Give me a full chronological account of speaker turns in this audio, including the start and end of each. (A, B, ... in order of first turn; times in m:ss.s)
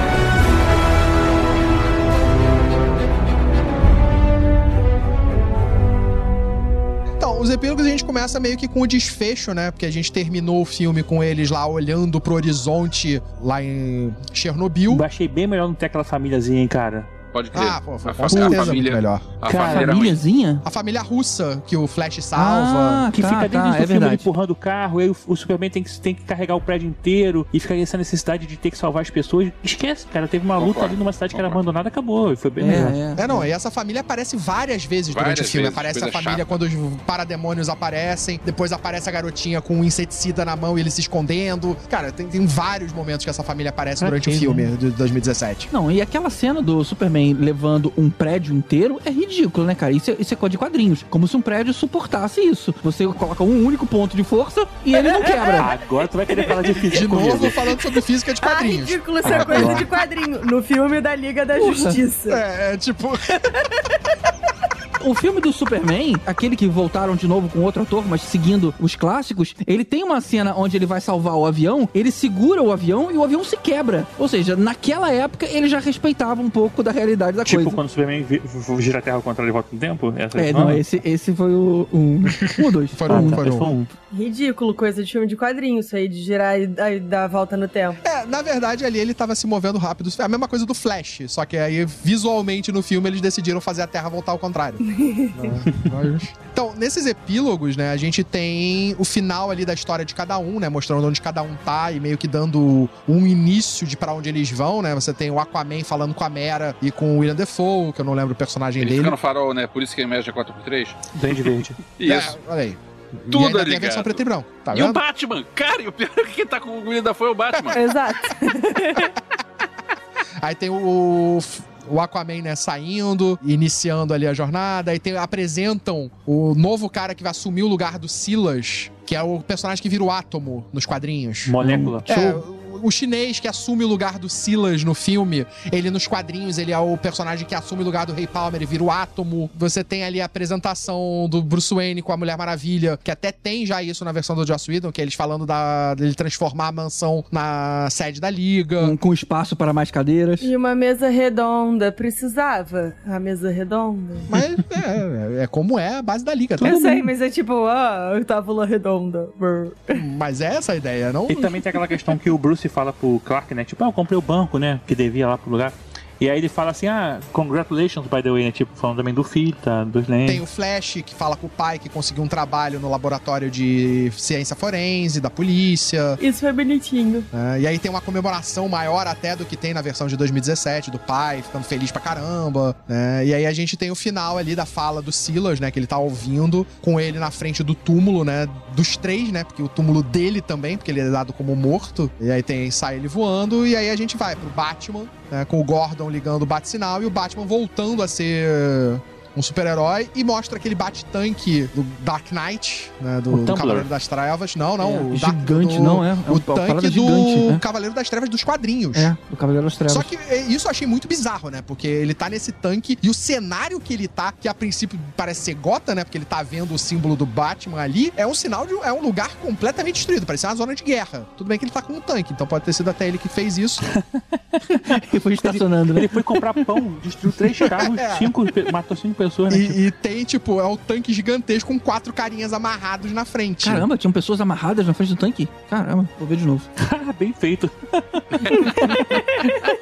0:07.2-0:15.0 A
0:14.9-0:17.1 B
0:17.3-0:20.2 C
0:17.5-0:19.4 A
0:18.3-0:18.8 B
0:19.4-0:20.1 B
0:19.6-0:20.6 D
0:20.6-0:23.0 A
0:22.3-0:24.3 D
0:23.1-0:33.0 B
0:30.6-0:31.6 C
0:32.6-0:33.5 D
0:33.2-0:45.7 A
0:35.1-0:36.6 C
0:44.0-0:44.7 B
0:45.7-0:55.7 D
0:54.9-0:55.7 E
0:55.6-0:57.6 B
0:56.3-0:57.5 E
0:56.9-0:59.8 A
0:58.4-1:02.4 E
0:59.2-0:59.8 B
1:01.6-1:02.0 D
1:02.3-1:03.3 A
1:05.0-1:17.8 D
1:17.4-1:20.8 B
1:20.4-1:23.4 D
1:22.9-1:23.7 A
1:23.1-1:23.9 B
1:24.1-1:28.0 E
1:28.0-1:34.8 A
1:34.9-1:35.6 E
1:35.3-1:49.2 A
1:48.8-1:52.4 C
1:51.1-1:51.8 B
1:52.0-1:55.0 A
1:53.3-1:57.8 C
1:57.7-1:59.1 E
2:00.4-2:11.6 A
2:11.4-2:12.4 B
2:11.6-2:12.0 D
2:12.1-2:28.9 A
2:28.8-2:30.5 D
2:30.4-2:34.3 E
2:34.3-2:36.9 A
2:36.6-2:40.0 E
2:39.9-2:41.5 A
2:41.3-2:50.4 B
2:41.4-2:41.8 E
2:50.2-2:56.2 A
2:56.2-2:57.3 E
2:57.3-3:29.1 A
3:23.3-3:23.9 B
3:24.8-3:27.6 D
3:28.9-3:30.1 D
3:29.9-3:43.8 A
3:43.8-3:49.8 B
3:44.7-3:46.2 D
3:47.8-3:48.3 A
3:49.5-3:53.9 A
3:53.6-3:56.7 D
3:56.8-3:59.2 B
3:58.5-3:59.5 E